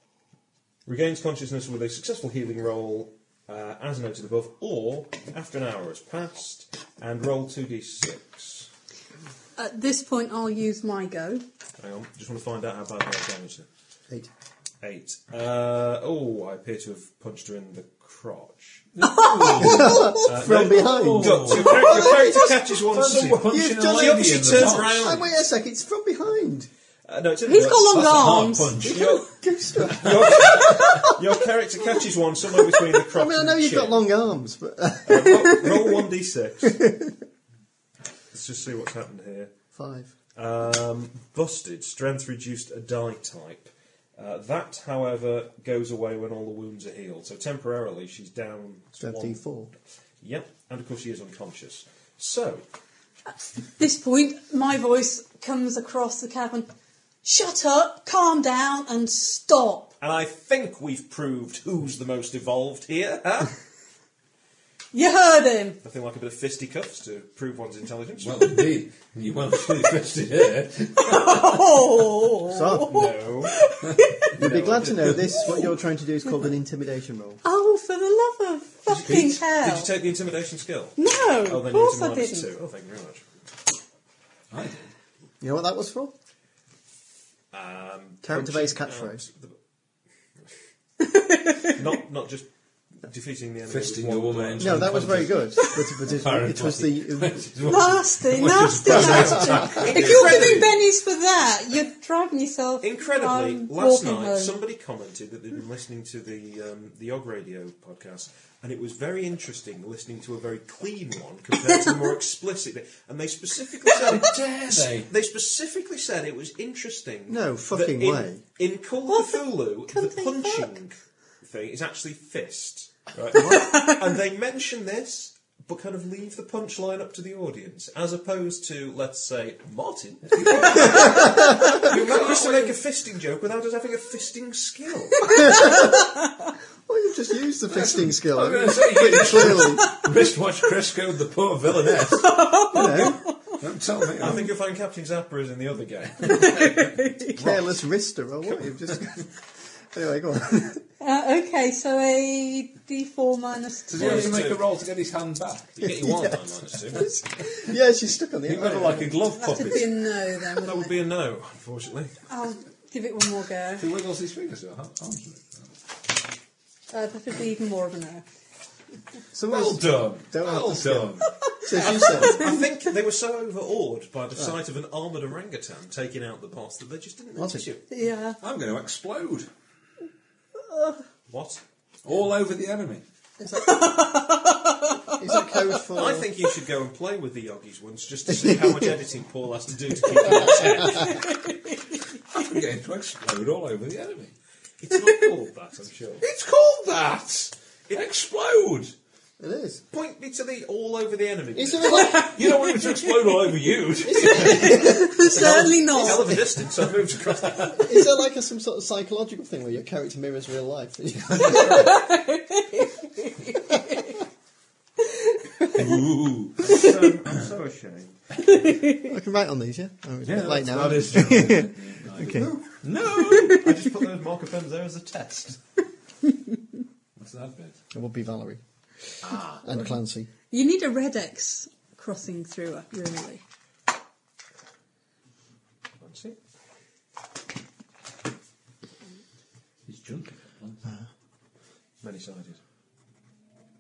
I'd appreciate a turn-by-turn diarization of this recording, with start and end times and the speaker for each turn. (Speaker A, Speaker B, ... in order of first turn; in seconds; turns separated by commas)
Speaker A: 0.9-8.7, Speaker B: 9.6-11.4, Speaker A: 11.8-13.7, Speaker A: 14.8-18.9, Speaker C: 18.9-25.2, Speaker B: 19.0-20.2, Speaker D: 19.6-26.7, Speaker A: 19.7-25.2, Speaker A: 27.1-27.9, Speaker B: 27.4-28.8, Speaker C: 27.6-29.1, Speaker D: 28.8-31.2, Speaker A: 28.9-34.1, Speaker D: 32.8-35.9, Speaker A: 35.1-36.9, Speaker D: 36.6-37.1, Speaker A: 38.3-39.5, Speaker D: 39.7-40.1, Speaker A: 40.4-49.4, Speaker D: 49.0-49.7, Speaker A: 50.2-52.6, Speaker B: 53.3-56.7, Speaker B: 57.2-60.0, Speaker A: 60.0-63.5, Speaker B: 64.9-65.8, Speaker A: 65.8-68.7, Speaker C: 68.2-71.7, Speaker B: 71.0-74.4, Speaker D: 72.5-73.1, Speaker A: 72.9-73.6, Speaker A: 74.4-75.6, Speaker D: 74.4-77.4, Speaker B: 75.3-75.8, Speaker B: 77.4-79.9, Speaker C: 78.9-79.4, Speaker A: 78.9-83.3, Speaker B: 81.0-82.5, Speaker C: 84.5-84.9, Speaker D: 85.4-86.1, Speaker A: 87.5-89.6, Speaker D: 88.2-89.2, Speaker B: 91.0-91.8, Speaker A: 91.7-92.5, Speaker A: 93.0-95.2, Speaker C: 93.7-100.7, Speaker D: 94.6-97.7, Speaker B: 97.6-104.5, Speaker D: 98.8-99.9, Speaker A: 99.5-100.9, Speaker A: 102.8-135.5, Speaker B: 111.7-112.0, Speaker C: 113.9-115.1, Speaker D: 117.3-118.4, Speaker B: 119.1-120.7, Speaker D: 123.3-123.7, Speaker B: 123.4-124.0, Speaker C: 130.3-132.8, Speaker D: 130.8-131.9, Speaker B: 135.2-136.4, Speaker D: 135.3-136.1, Speaker D: 136.9-140.0, Speaker C: 137.7-144.5, Speaker B: 139.6-140.1, Speaker B: 142.1-143.6, Speaker D: 142.7-143.2, Speaker A: 144.2-147.7, Speaker B: 146.2-147.4, Speaker D: 147.3-149.3, Speaker D: 149.9-150.8, Speaker B: 151.0-154.4, Speaker C: 153.9-155.9, Speaker A: 154.0-154.6, Speaker A: 155.8-157.1, Speaker D: 155.8-159.3, Speaker C: 158.5-159.9, Speaker B: 159.3-160.9, Speaker A: 160.5-162.2, Speaker B: 162.3-163.9, Speaker C: 163.8-165.7, Speaker B: 166.9-168.2, Speaker D: 169.3-172.7, Speaker C: 169.4-171.3, Speaker B: 171.3-172.5, Speaker A: 171.8-177.8, Speaker D: 177.4-177.7, Speaker B: 177.9-178.4, Speaker C: 178.4-179.5, Speaker A: 181.3-181.6, Speaker C: 182.1-183.0, Speaker D: 183.4-183.9, Speaker B: 183.5-185.7, Speaker D: 185.1-186.3, Speaker A: 185.9-191.2, Speaker D: 188.3-188.9, Speaker B: 190.9-191.7, Speaker C: 192.3-194.3, Speaker A: 194.8-196.2, Speaker C: 196.2-198.9, Speaker D: 199.4-199.8, Speaker A: 199.9-202.2, Speaker D: 201.6-202.4, Speaker C: 201.9-204.9, Speaker B: 202.0-203.1, Speaker D: 204.0-206.5, Speaker B: 204.2-206.4, Speaker A: 205.2-207.9, Speaker C: 207.3-207.8, Speaker D: 207.7-212.0, Speaker C: 211.3-211.7, Speaker B: 211.5-214.2, Speaker B: 215.0-215.9, Speaker C: 215.7-217.4, Speaker A: 216.6-218.2, Speaker B: 218.5-219.1, Speaker D: 219.0-222.6, Speaker C: 220.2-223.7, Speaker A: 222.2-222.7, Speaker B: 223.2-223.7, Speaker A: 223.3-225.6, Speaker C: 227.2-227.8, Speaker D: 227.9-228.6, Speaker C: 229.2-229.8, Speaker D: 229.6-230.3, Speaker B: 230.5-233.4, Speaker A: 236.0-236.4, Speaker C: 239.9-240.9, Speaker A: 242.0-242.6